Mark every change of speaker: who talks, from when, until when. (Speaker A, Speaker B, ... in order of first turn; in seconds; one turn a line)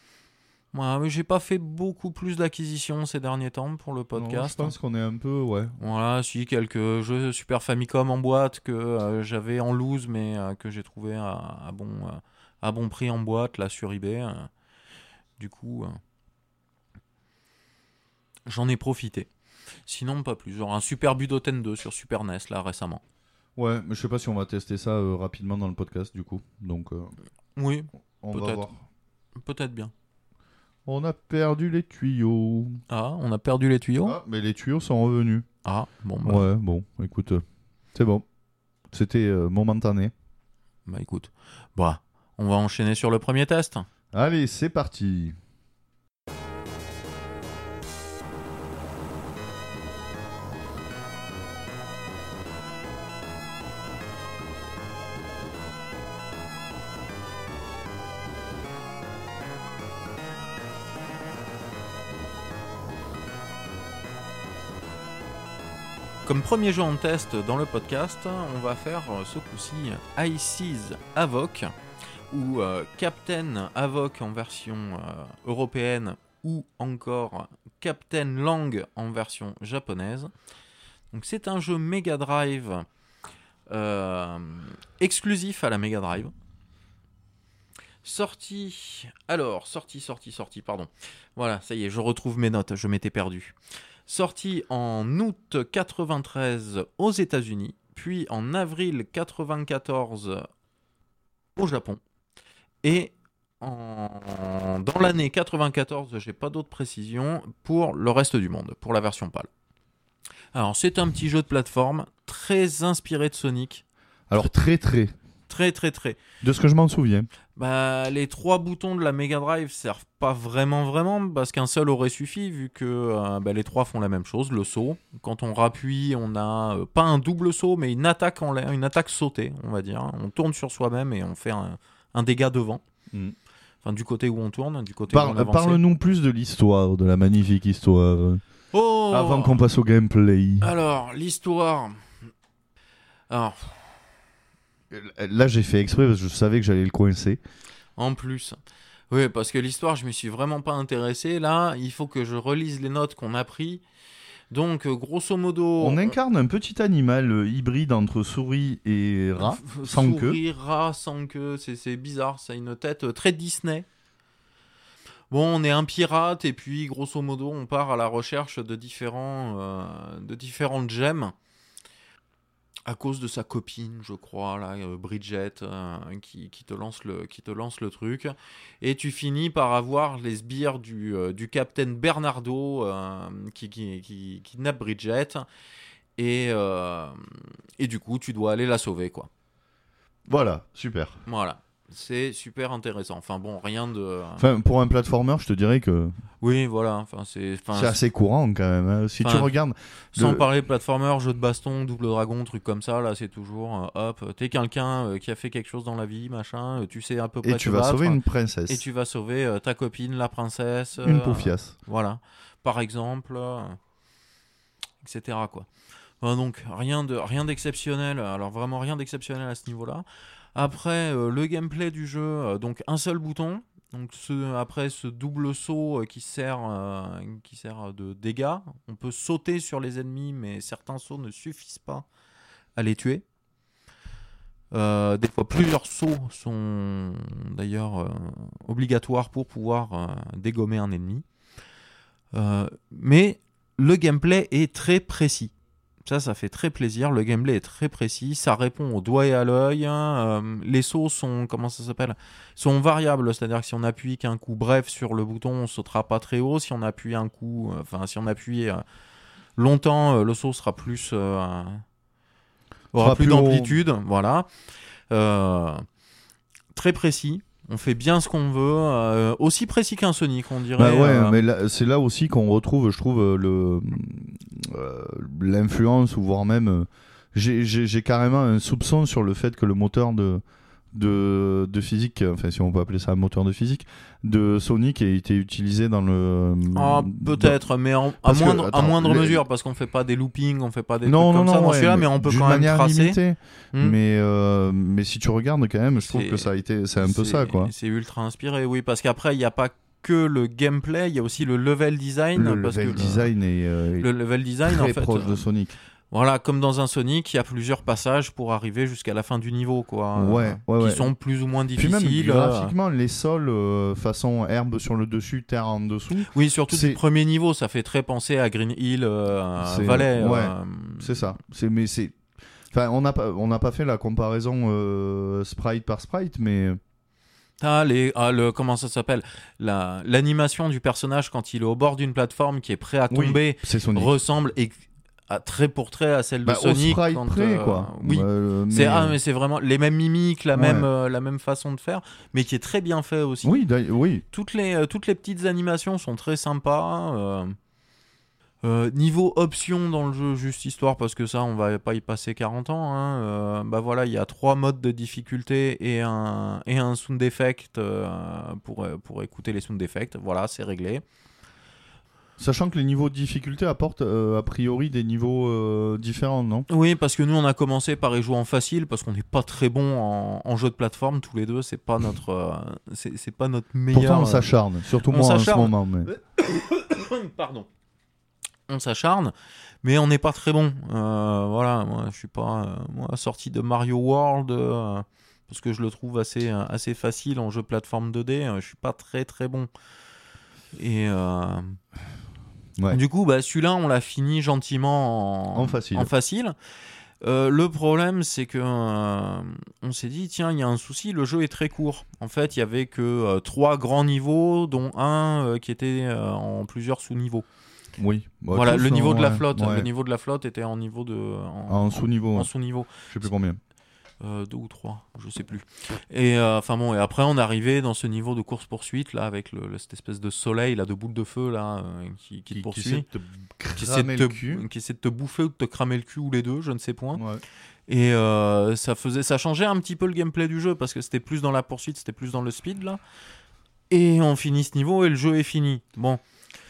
Speaker A: 0.7-4.7
Speaker B: 4.2-5.7
Speaker A: 5.8-14.5
Speaker A: 15.4-16.0
Speaker A: 18.5-19.3
Speaker A: 19.9-23.0
Speaker B: 23.6-27.1
Speaker A: 27.6-28.6
Speaker B: 28.2-28.8
Speaker A: 29.4-29.9
Speaker B: 30.9-32.8
Speaker A: 32.9-34.2
Speaker B: 34.0-35.5
Speaker A: 35.6-36.5
Speaker B: 36.2-37.4
Speaker B: 37.9-38.2
Speaker B: 38.9-40.1
Speaker A: 40.9-43.9
Speaker B: 44.1-45.4
Speaker A: 66.2-71.7
Speaker A: 72.3-80.3
Speaker A: 81.1-82.8
Speaker A: 83.7-86.3
Speaker A: 88.0-93.5
Speaker A: 94.1-100.5
Speaker A: 101.5-102.0
Speaker A: 102.8-109.5
Speaker A: 110.5-113.8
Speaker B: 114.3-115.1
Speaker A: 115.5-116.2
Speaker B: 116.4-117.3
Speaker A: 117.5-132.8
Speaker A: 133.8-135.8
Speaker B: 135.1-138.4
Speaker A: 138.7-139.6
Speaker B: 139.1-140.7
Speaker A: 140.6-142.0
Speaker A: 143.3-143.8
Speaker B: 144.9-147.4
Speaker A: 148.0-148.6
Speaker A: 149.1-153.8
Speaker A: 154.5-156.2
Speaker B: 155.8-160.4
Speaker A: 159.4-163.8
Speaker A: 165.3-171.3
Speaker A: 172.8-185.4
Speaker A: 186.2-189.3
Speaker B: 190.3-191.2
Speaker A: 191.2-194.5
Speaker B: 194.4-196.1
Speaker A: 196.4-198.0
Speaker B: 197.7-200.4
Speaker A: 199.2-199.5
Speaker A: 200.1-213.8
Speaker B: 207.4-208.8
Speaker B: 211.0-211.7
Speaker A: 215.0-215.7
Speaker A: 216.2-220.0
Speaker A: 220.5-232.1
Speaker A: 232.8-233.2
Speaker A: 234.7-241.2
Speaker A: 242.3-245.5
Speaker A: 246.0-258.8
Speaker A: 259.6-261.8
Speaker A: 262.9-264.5
Speaker B: 262.9-263.8
Speaker A: 265.1-265.9
Speaker A: 266.7-271.4
Speaker B: 270.8-280.4
Speaker B: 280.9-287.6
Speaker A: 286.7-293.2
Speaker B: 288.2-289.4
Speaker B: 291.0-297.7
Speaker A: 296.0-303.3
Speaker B: 302.3-304.1
Speaker A: 304.0-305.4
Speaker B: 304.6-305.8
Speaker A: 306.1-312.7
Speaker B: 310.2-311.1
Speaker B: 311.8-317.0
Speaker A: 316.3-321.3
Speaker B: 319.6-322.2
Speaker B: 322.7-326.8
Speaker A: 327.6-334.7
Speaker B: 333.1-334.1
Speaker A: 335.3-343.6
Speaker B: 336.4-339.1
Speaker B: 340.6-340.9
Speaker B: 343.4-344.2
Speaker A: 344.3-347.6
Speaker A: 348.6-361.0
Speaker B: 362.4-366.7
Speaker A: 366.7-374.5
Speaker B: 373.9-376.1
Speaker A: 375.0-377.7
Speaker A: 378.7-389.7
Speaker A: 390.7-391.8
Speaker A: 392.9-396.5
Speaker B: 395.5-396.1
Speaker A: 397.2-407.4
Speaker B: 408.0-409.9
Speaker A: 408.5-413.3
Speaker B: 411.7-413.6
Speaker A: 414.2-423.1
Speaker B: 422.5-424.6
Speaker A: 423.8-427.2
Speaker B: 427.1-427.4
Speaker A: 427.9-433.0
Speaker A: 433.9-436.2